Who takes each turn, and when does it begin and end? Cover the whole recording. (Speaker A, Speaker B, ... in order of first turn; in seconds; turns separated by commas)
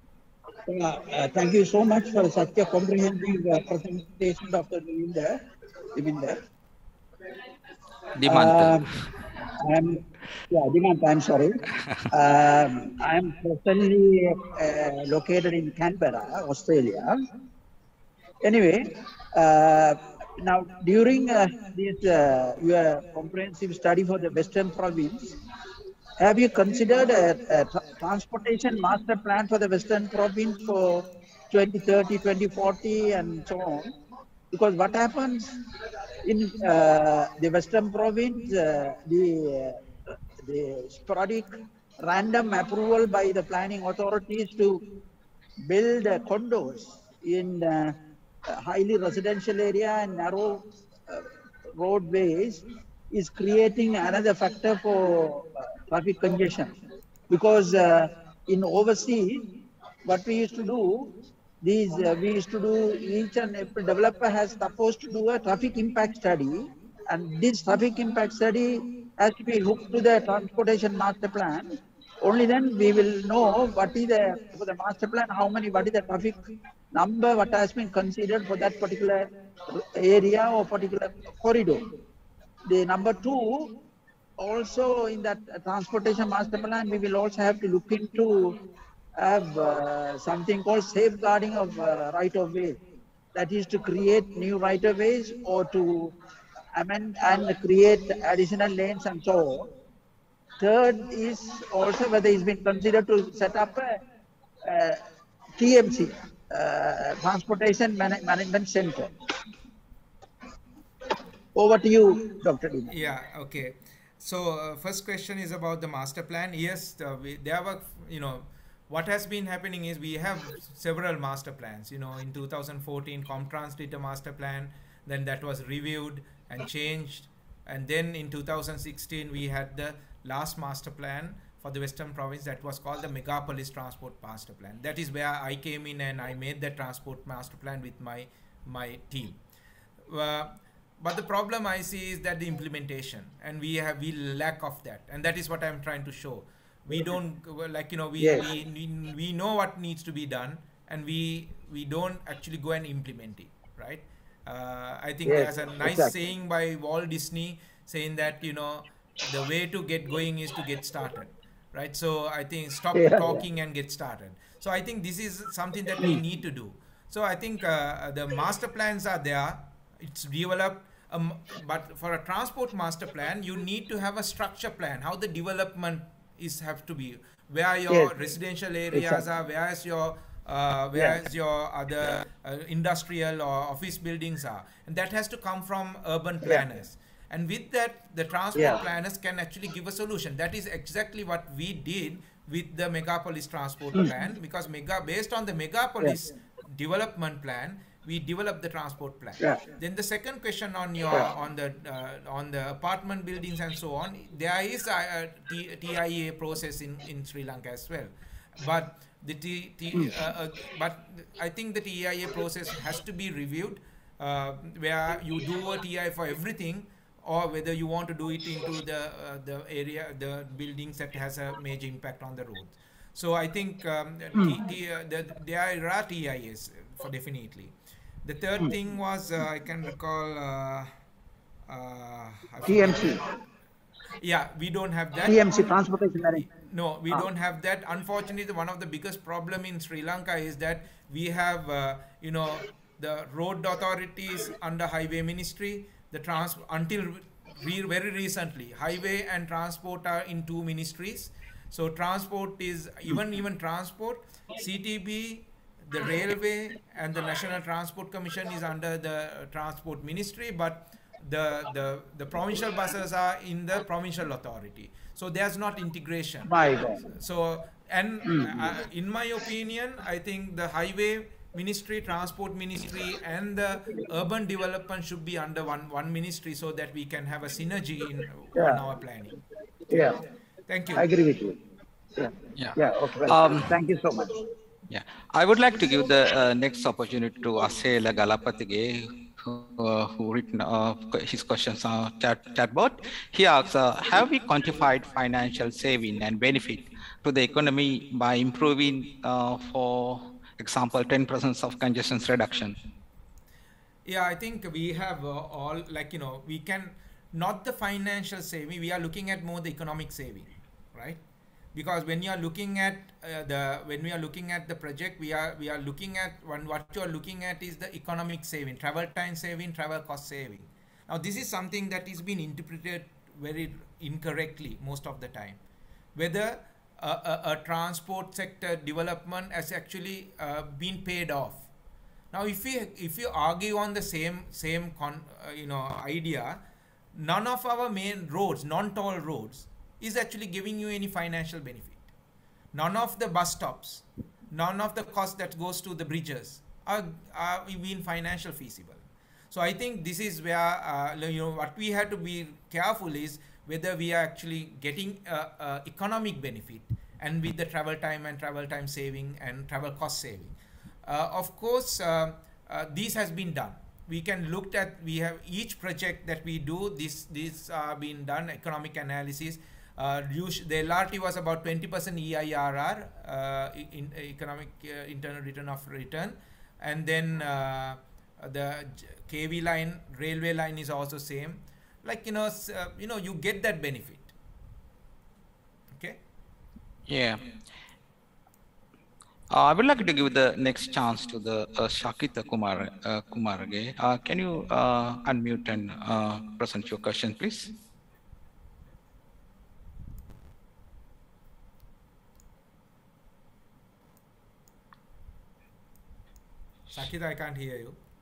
Speaker A: 0.7-5.4, Speaker A: 5.9-6.4, Speaker B: 8.2-8.9, Speaker A: 8.3-8.8, Speaker A: 9.6-17.3, Speaker A: 18.4-25.3, Speaker A: 26.2-33.9, Speaker A: 34.5-35.6, Speaker A: 36.2-39.8, Speaker A: 40.4-44.8, Speaker A: 45.6-48.0, Speaker A: 48.5-56.7, Speaker A: 57.3-59.5, Speaker A: 60.0-76.4, Speaker A: 76.9-81.9, Speaker A: 82.7-83.8, Speaker A: 84.4-88.6, Speaker A: 89.2-92.8, Speaker A: 93.3-96.1, Speaker A: 96.8-99.7, Speaker A: 100.6-104.0, Speaker A: 104.6-105.0, Speaker A: 105.6-109.1, Speaker A: 111.5-112.9, Speaker C: 112.9-139.4, Speaker C: 140.1-230.9, Speaker A: 148.2-148.5, Speaker A: 155.2-156.1, Speaker A: 162.9-163.4, Speaker A: 178.9-179.2, Speaker A: 188.6-188.8, Speaker A: 224.3-224.6, Speaker C: 231.7-233.1, Speaker A: 232.7-233.2, Speaker C: 234.2-235.7, Speaker A: 235.2-236.4, Speaker C: 236.4-279.4, Speaker A: 266.4-267.0, Speaker A: 268.3-268.6, Speaker A: 278.6-278.8, Speaker A: 279.9-280.2, Speaker C: 280.7-281.1, Speaker A: 280.9-281.6, Speaker A: 282.1-284.4, Speaker B: 282.6-283.7, Speaker B: 284.9-302.8, Speaker C: 304.1-311.2, Speaker C: 311.7-325.6, Speaker C: 326.1-331.7, Speaker C: 332.3-336.6, Speaker C: 337.1-342.1, Speaker C: 342.7-384.3, Speaker C: 385.9-386.2, Speaker B: 387.1-387.4, Speaker B: 389.5-397.7, Speaker C: 406.9-408.0